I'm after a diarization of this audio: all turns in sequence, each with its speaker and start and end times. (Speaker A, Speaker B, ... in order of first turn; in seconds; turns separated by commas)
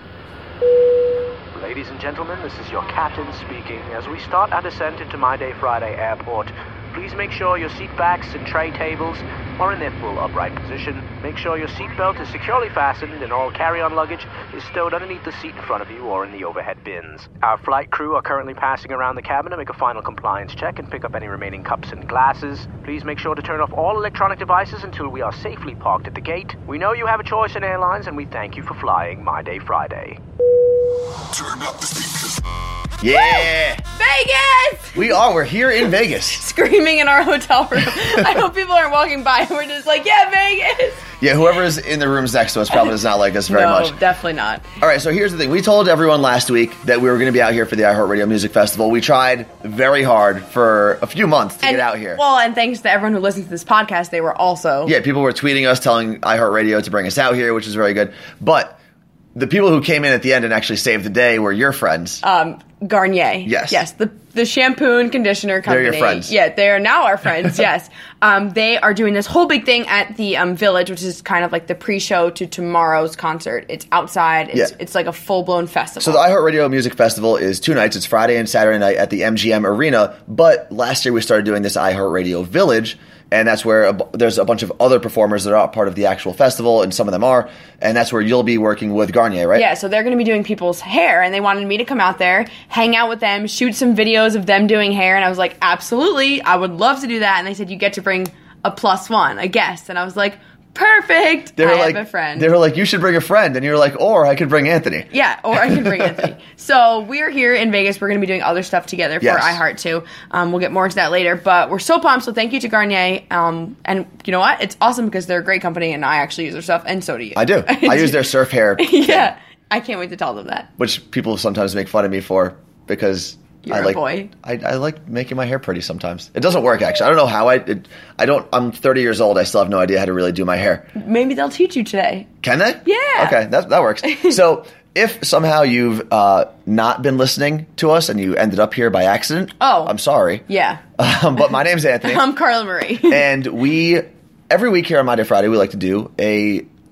Speaker A: 1.5-30.2, Speaker B: 33.0-33.8, Speaker C: 33.1-35.0, Speaker B: 34.9-36.4, Speaker C: 36.3-41.0, Speaker B: 41.2-44.0, Speaker C: 43.5-44.7, Speaker B: 44.8-52.2, Speaker C: 51.6-55.0, Speaker B: 54.9-58.8, Speaker B: 59.4-62.2, Speaker C: 62.2-76.3, Speaker B: 63.5-63.8, Speaker B: 65.7-66.3, Speaker B: 76.0-89.7, Speaker C: 89.5-102.5, Speaker B: 101.6-106.2, Speaker C: 105.1-120.7, Speaker B: 109.2-109.6, Speaker B: 117.4-119.3, Speaker B: 120.8-130.9, Speaker C: 123.6-124.3, Speaker C: 131.0-132.3, Speaker B: 132.4-140.4, Speaker C: 132.8-133.4, Speaker C: 134.0-134.4, Speaker C: 139.6-140.0, Speaker C: 140.5-140.8, Speaker B: 141.0-142.3, Speaker C: 142.0-143.3, Speaker B: 143.0-146.7